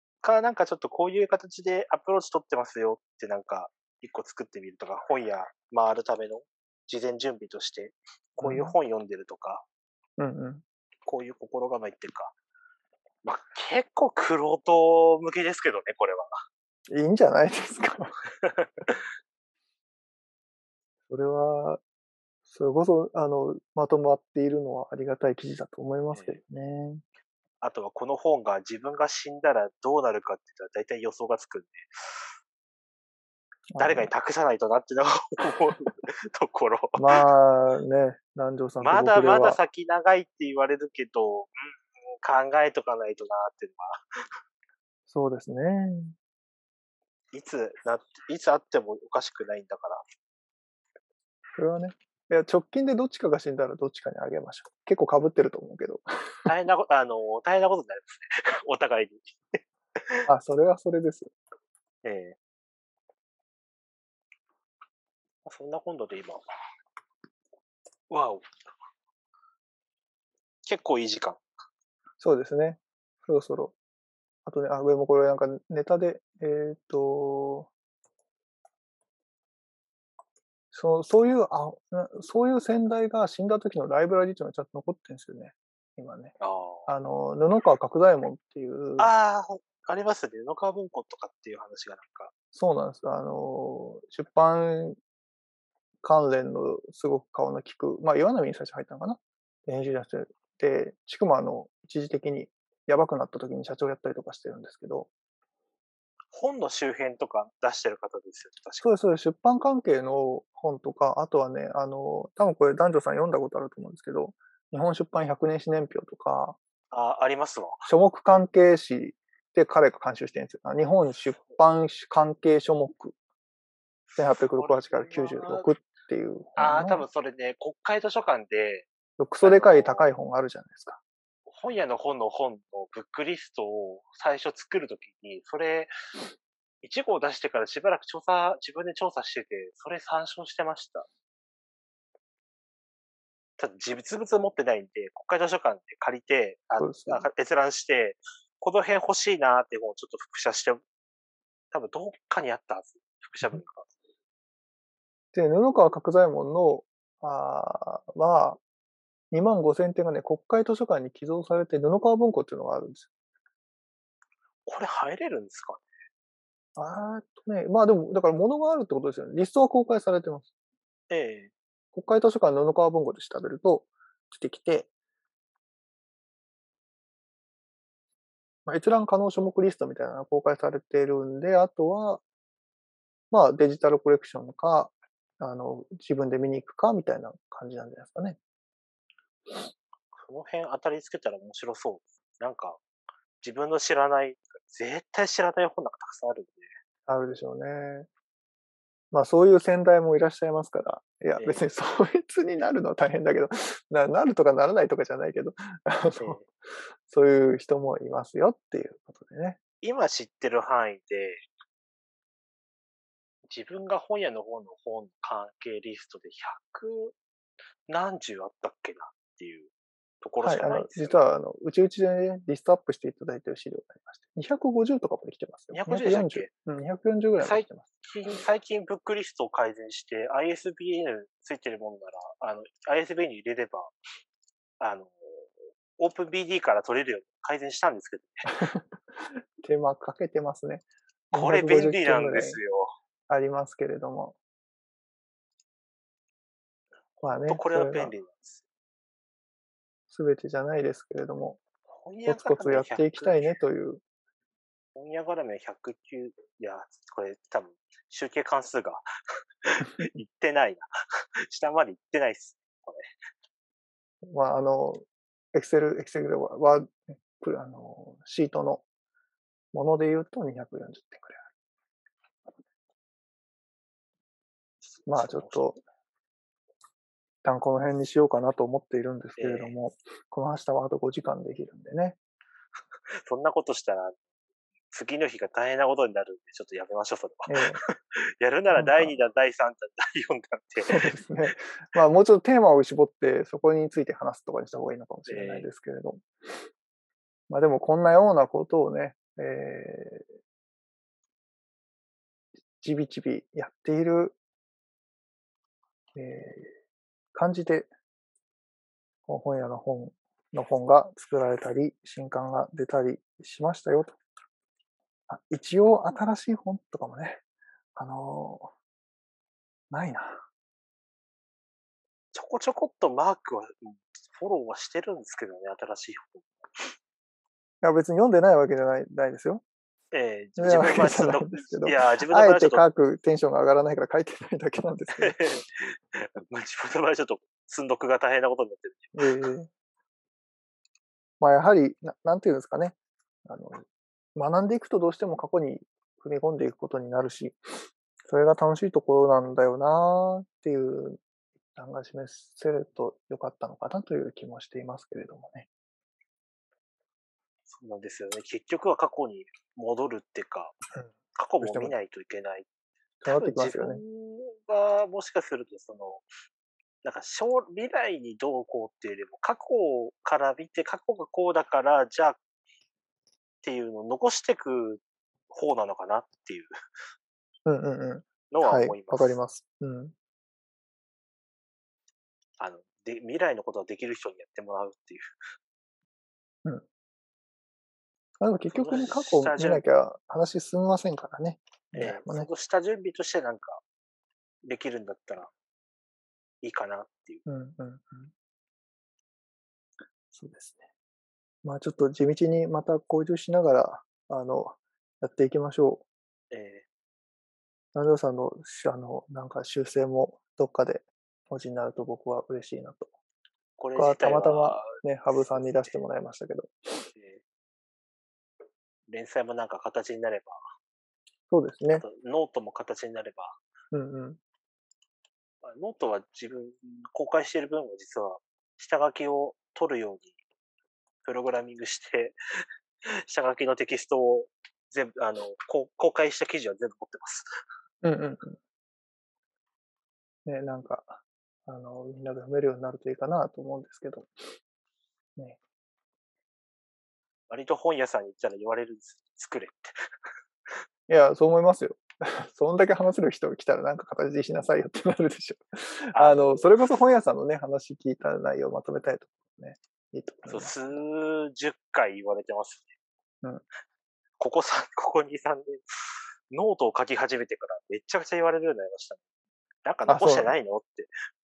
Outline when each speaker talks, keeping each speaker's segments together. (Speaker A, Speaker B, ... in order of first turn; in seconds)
Speaker A: 0.2-9.6, 11.1-12.3, 13.2-16.3, 18.4-19.0, 26.1-26.4, 27.6-32.3, 33.8-37.2, 38.8-44.3, 47.3-50.0, 56.5-60.3, 62.0-62.4, 65.4-66.4, 68.1-68.5, 70.6-71.4, 86.4-86.9, 89.0-92.3, 106.3-108.9, 116.9-117.9, 124.5-125.7, 126.6-128.9, 129.4-130.1, 131.5-135.9, 136.8-141.1, 143.6-150.8, 151.7-153.9, 164.7-165.9, 171.1-171.5, 190.1-192.8, 193.4-196.7, 201.4-201.6, 206.2-206.4, 209.8-211.4, 213.5-217.1, 217.9-219.7, 220.2-221.2, 225.7-226.5, 227.4-233.9, 234.8-238.4, 241.3-242.9, 247.5-248.6, 251.9-253.6, 254.9-259.1, 259.6-260.9, 261.5-263.1, 275.1-275.7, 279.4-279.7, 283.2-284.2, 284.9-291.1, 295.3-295.7, 322.3-326.9, 330.1-332.8, 335.2-339.4, 357.7-360.8, 361.3-362.7, 363.2-366.2, 367.0-372.4, 373.6-376.7, 378.5-379.4, 382.6-385.3, 388.7-389.8, 392.0-393.8, 394.6-395.5, 396.6-397.4, 406.5-406.9, 413.8-416.0, 417.1-417.4, 419.1-420.6, 421.9-423.6, 425.6-430.3, 431.2-432.4, 433.3-437.4, 447.5-449.9, 456.1-456.7, 460.5-462.9, 464.4-469.2, 469.8-471.1
Speaker B: 8.4-8.7, 10.2-10.6, 16.9-18.2, 21.1-21.8, 22.5-27.0, 33.7-34.1, 37.0-39.6, 45.1-46.1, 51.5-56.5, 60.3-61.3, 72.2-73.7, 74.5-77.7, 80.7-86.3, 86.9-89.1, 92.5-95.0, 96.0-105.1, 108.8-116.6, 117.9-123.1, 124.2-127.0, 129.2-131.0, 146.8-147.3, 155.3-158.6, 159.3-163.1, 166.8-170.5, 171.9-174.9, 178.7-182.2, 183.3-188.4, 197.1-198.1, 199.1-206.5, 207.1-209.6, 220.4-227.9, 238.5-238.9, 239.6-242.6, 243.3-244.4, 247.2-248.1, 250.1-251.6, 252.2-254.0, 264.3-268.8, 269.7-271.4, 275.1-275.8, 277.4-282.2, 287.5-287.8, 288.7-289.2, 290.8-296.6, 297.5-300.3, 302.8-304.4, 306.2-306.7, 307.3-307.9, 309.3-314.2, 315.3-317.4, 317.9-318.7, 319.9-320.4, 327.8-329.6, 330.6-335.4, 339.2-339.7, 341.4-351.2, 351.7-355.7, 360.9-361.9, 363.2-364.0, 377.7-380.1, 388.4-392.5, 397.4-398.3, 400.3-400.8, 401.6-406.1, 407.9-413.1, 413.9-417.1, 421.5-422.1, 423.9-424.4, 438.0-438.6, 440.4-444.3, 451.1-460.8, 470.1-470.5